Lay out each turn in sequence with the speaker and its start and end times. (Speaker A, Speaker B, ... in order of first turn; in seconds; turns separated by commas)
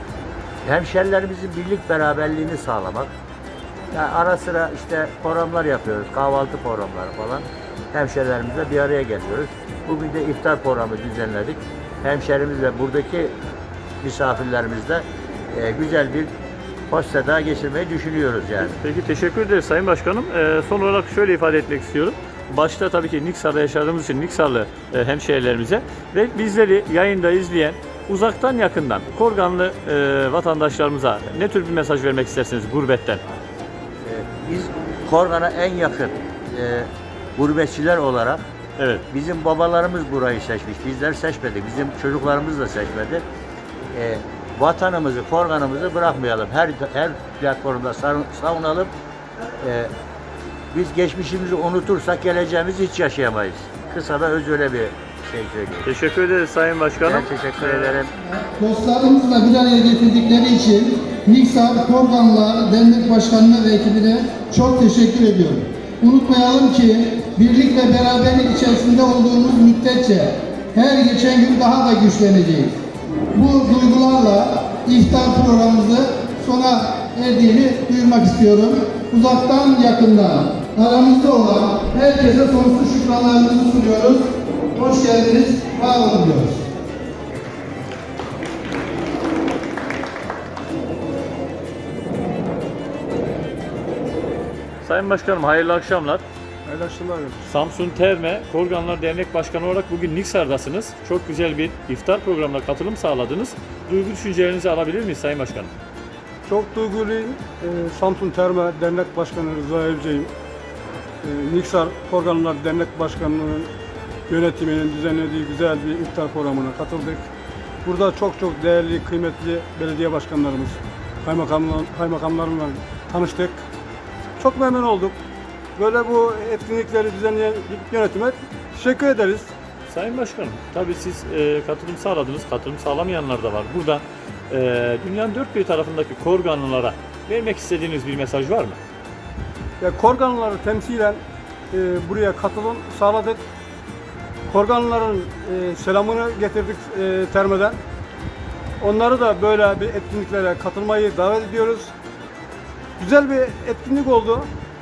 Speaker A: 0.7-3.1, Speaker A: 3.9-13.3, Speaker A: 14.0-16.3, Speaker A: 16.9-18.8, Speaker B: 18.8-33.2, Speaker A: 34.0-38.4, Speaker B: 38.8-39.0, Speaker A: 39.1-43.2, Speaker A: 43.9-48.9, Speaker A: 49.6-49.9, Speaker A: 50.7-55.9, Speaker B: 55.9-57.9, Speaker A: 57.0-58.1, Speaker C: 58.4-72.8, Speaker C: 73.3-86.6, Speaker B: 94.8-96.2, Speaker D: 96.7-97.4, Speaker B: 97.5-105.7, Speaker D: 106.5-110.3, Speaker D: 111.2-113.7, Speaker D: 114.3-117.2, Speaker D: 117.8-123.6, Speaker D: 124.4-125.2, Speaker D: 125.8-129.5, Speaker B: 129.9-138.8, Speaker D: 139.8-141.2, Speaker D: 141.7-143.4, Speaker D: 144.5-147.8, Speaker D: 148.8-151.9, Speaker D: 153.0-154.5